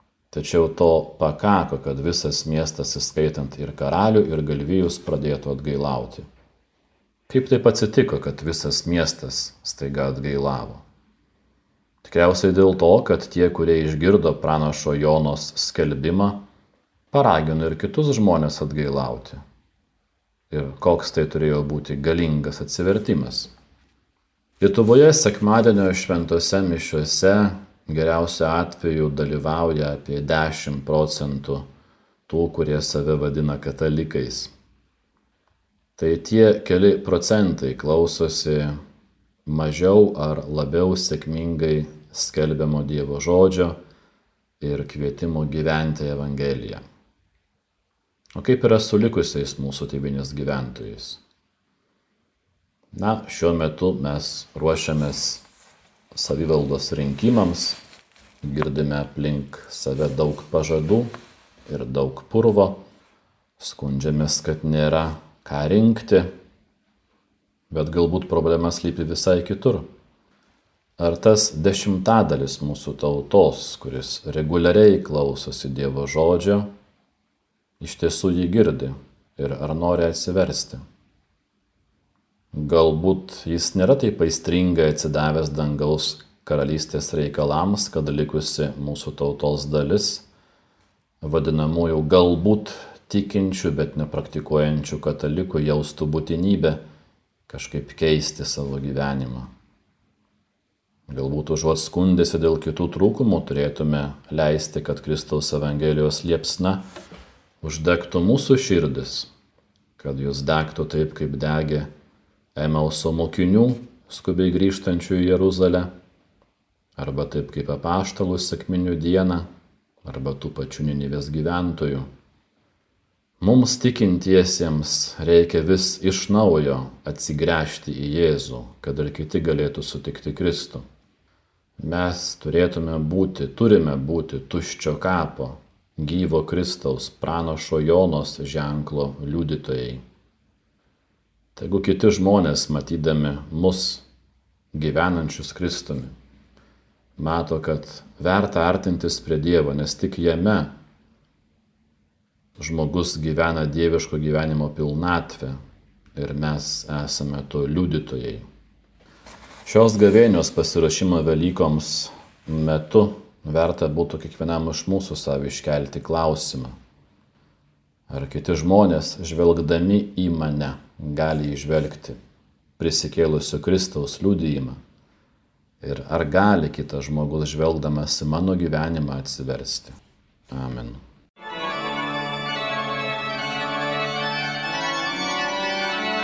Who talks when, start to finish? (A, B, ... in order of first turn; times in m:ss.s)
0:00.3-0:06.2 A
0:07.3-0:10.8 A
0:12.0-0:16.4 A
0:17.1-0:19.4 A
0:20.5-0:23.5 A
0:24.6-0:31.6 A
0:32.3-0:34.5 A
0:36.0-0:38.7 A
0:39.4-0:43.8 A
0:44.6-0:46.8 A
0:48.4-0:51.2 A
0:52.9-0:55.4 A
0:56.1-0:57.8 A
0:58.4-1:01.1 A
1:01.7-1:02.8 A
1:03.6-1:06.3 A
1:07.7-1:09.8 A
1:11.0-1:16.7 A
1:17.8-1:20.8 A
1:22.5-1:30.2 A
1:31.2-1:36.8 A
1:37.5-1:39.5 A
1:41.1-1:46.8 A
1:47.6-1:49.3 A
1:50.0-1:51.9 A
1:52.5-1:55.9 A
1:57.0-1:59.4 A
2:00.0-2:02.0 A
2:03.4-2:10.8 A
2:11.8-2:20.0 A
2:21.6-2:24.0 A
2:24.7-2:26.1 A
2:27.2-2:30.7 A
2:32.6-2:35.5 A
2:36.1-2:38.4 A
2:39.6-2:46.7 A
2:48.1-2:52.2 A
2:52.8-2:54.8 A
2:55.8-3:00.0 A
3:00.5-3:01.0 A